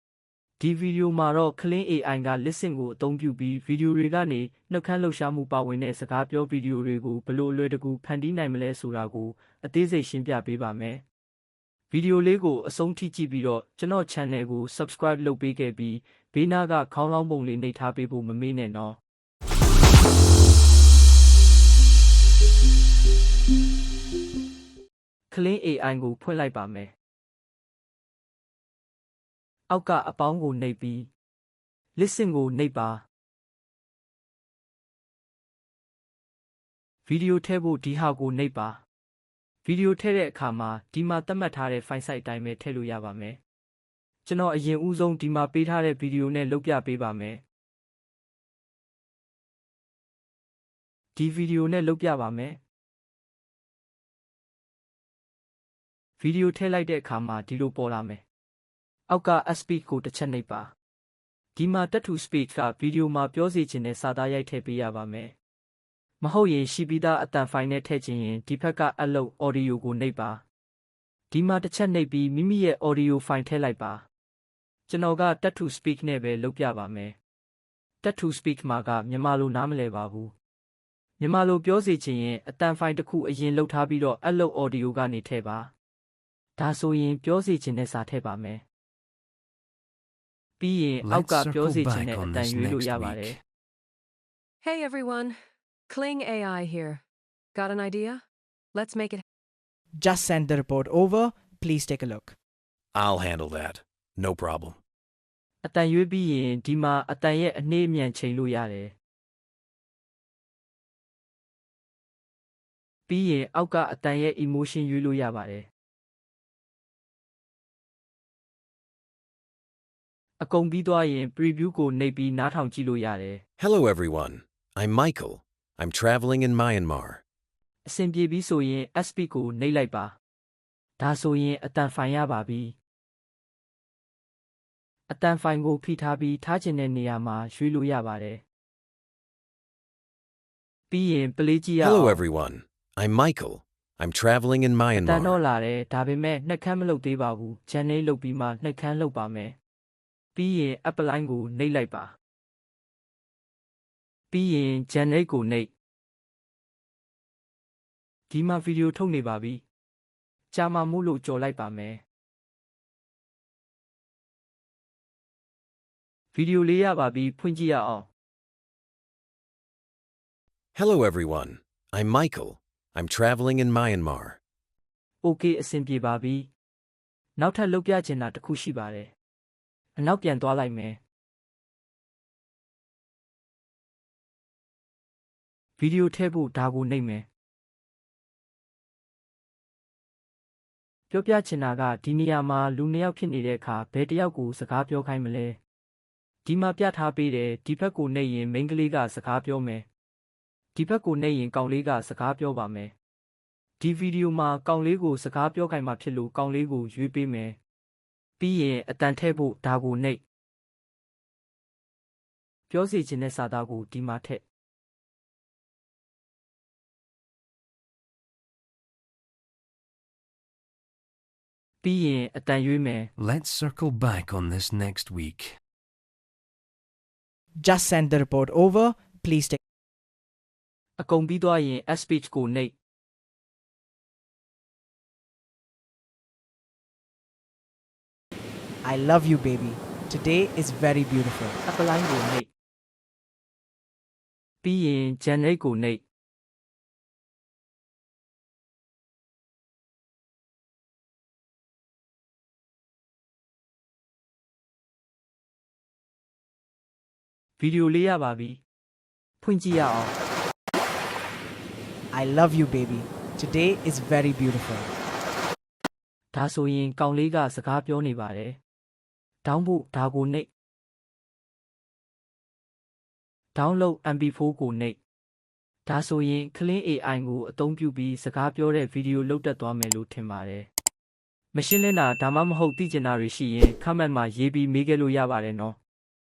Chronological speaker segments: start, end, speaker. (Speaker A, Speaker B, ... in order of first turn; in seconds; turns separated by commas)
Speaker A: 0.6-11.0, Speaker A: 11.9-19.0, Speaker A: 25.3-26.9, Speaker A: 29.7-31.1, Speaker A: 32.0-33.0, Speaker A: 37.0-38.8, Speaker A: 39.6-43.4, Speaker A: 44.2-47.4, Speaker A: 51.1-52.6, Speaker A: 56.2-58.2, Speaker A: 59.1-60.7, Speaker A: 61.5-65.3, Speaker A: 66.2-70.4, Speaker A: 71.3-74.0, Speaker A: 74.9-77.1, Speaker A: 78.0-80.3, Speaker A: 81.2-85.7, Speaker A: 86.6-88.6, Speaker A: 90.6-93.4, Speaker B: 91.0-93.4, Speaker C: 94.6-95.3, Speaker C: 95.9-97.0, Speaker C: 97.5-98.2, Speaker C: 98.7-99.2, Speaker D: 100.0-102.3, Speaker E: 102.9-104.8, Speaker A: 105.6-108.9, Speaker A: 113.1-115.7, Speaker A: 120.4-123.4, Speaker E: 123.6-127.2, Speaker A: 127.8-130.1, Speaker A: 131.0-132.8, Speaker A: 135.1-138.4, Speaker A: 140.9-142.2, Speaker E: 141.8-145.3, Speaker A: 144.9-149.6, Speaker A: 150.3-152.1, Speaker A: 154.3-155.7, Speaker A: 158.3-159.6, Speaker A: 160.5-162.0, Speaker A: 166.3-168.1, Speaker E: 170.7-174.4, Speaker A: 175.2-176.5, Speaker A: 177.4-179.1, Speaker A: 180.0-181.0, Speaker A: 185.8-187.2, Speaker A: 191.1-195.6, Speaker A: 196.4-199.8, Speaker A: 200.7-202.9, Speaker A: 203.8-207.6, Speaker A: 208.4-210.2, Speaker A: 212.7-214.4, Speaker A: 221.8-223.1, Speaker B: 223.2-225.5, Speaker D: 227.6-229.6, Speaker A: 231.0-232.7, Speaker D: 238.8-241.6, Speaker A: 241.6-242.5, Speaker A: 244.6-246.0, Speaker A: 257.6-258.6, Speaker A: 259.4-260.1, Speaker D: 262.1-264.9, Speaker A: 266.3-268.6, Speaker A: 269.4-270.5, Speaker A: 273.5-275.0, Speaker A: 275.9-280.7, Speaker A: 281.5-285.8